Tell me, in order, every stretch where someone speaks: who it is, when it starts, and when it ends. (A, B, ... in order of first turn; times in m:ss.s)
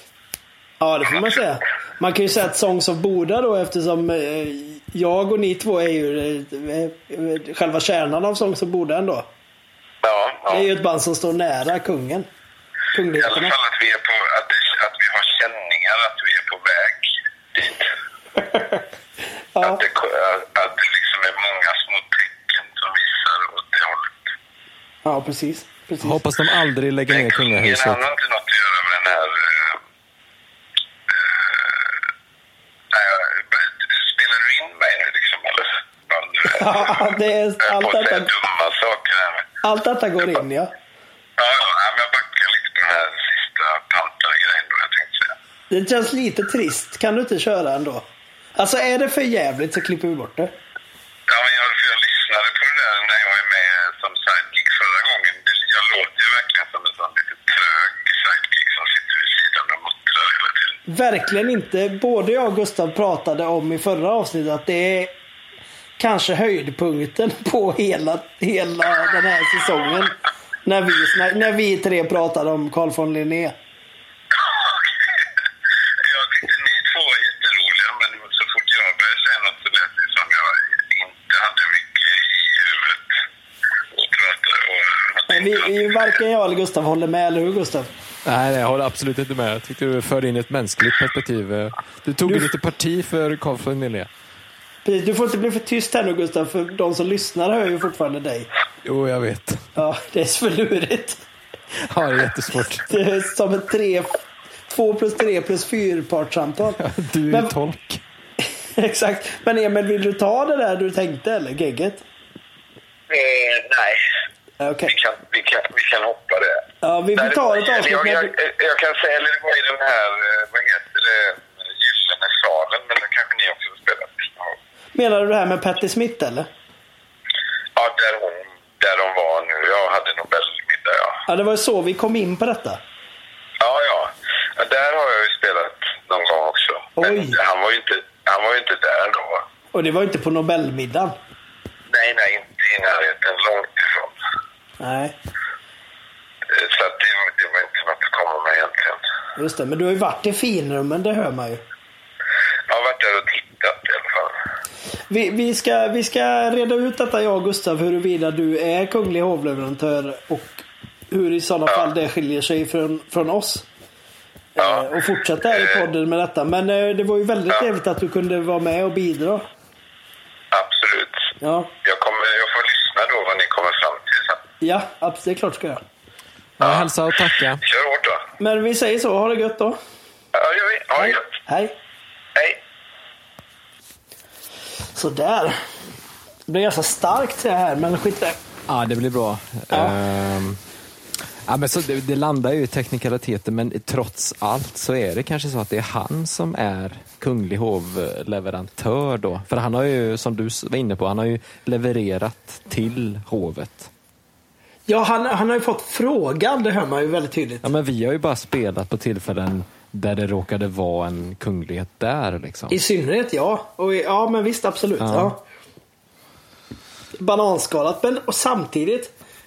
0:00.8-0:09.3 A
0:10.0-0:10.7 B
0:10.5-0:12.3 A
0:12.9-0:13.5 A
0:13.2-0:17.9 B
0:18.4-0:18.8 A
0:19.5-0:19.8 A
0:19.6-0:24.2 B
0:25.0-0:26.2 A
0:26.0-0:28.0 C
0:27.1-0:29.8 B
0:31.1-0:32.0 B
0:32.9-0:39.5 B
0:36.4-0:38.3 A
0:39.6-0:40.7 A
0:41.4-0:45.4 B
0:45.7-0:48.0 A
0:48.6-0:50.5 A
0:51.3-1:00.8 B
1:00.9-1:05.1 A
1:06.0-1:13.5 A
1:14.3-1:15.3 B
1:16.0-1:23.1 B
1:23.9-1:26.1 B
1:25.3-1:27.9 A
1:28.2-1:34.1 C
1:32.2-1:32.5 A
1:34.8-1:38.5 A
1:38.8-1:39.7 C
1:39.7-1:41.2 A
1:41.8-1:42.9 C
1:42.8-1:47.5 A
1:46.8-1:48.0 C
1:48.8-1:52.0 A
1:53.1-1:54.0 B
1:54.6-1:54.9 A
1:54.9-2:04.6 B
1:56.8-1:58.3 A
2:04.9-2:06.5 A
2:07.8-2:11.2 B
2:11.3-2:12.8 A
2:13.6-2:19.4 B
2:17.0-2:17.4 A
2:19.7-2:21.1 A
2:21.9-2:24.2 B
2:24.8-2:25.1 A
2:26.5-2:29.0 B
2:29.4-2:31.6 A
2:32.7-2:34.4 B
2:35.1-2:43.6 A
2:44.6-2:49.4 A
2:44.6-2:44.8 B
2:45.5-2:45.8 B
2:50.5-2:54.4 B
2:51.4-2:51.7 A
2:54.6-2:55.8 A
2:56.6-2:57.6 C
2:56.6-2:56.9 B
2:57.6-2:58.2 B
2:58.4-2:59.8 A
3:00.3-3:01.3 B
3:01.0-3:01.8 A
3:02.3-3:02.6 B
3:04.9-3:05.6 A
3:06.5-3:08.4 A
3:08.7-3:10.6 C
3:09.7-3:10.0 A
3:11.4-3:23.9 C
3:24.9-3:27.7 A
3:27.6-3:32.8 C
3:32.7-3:35.4 A
3:35.0-3:35.3 C
3:37.2-3:39.1 A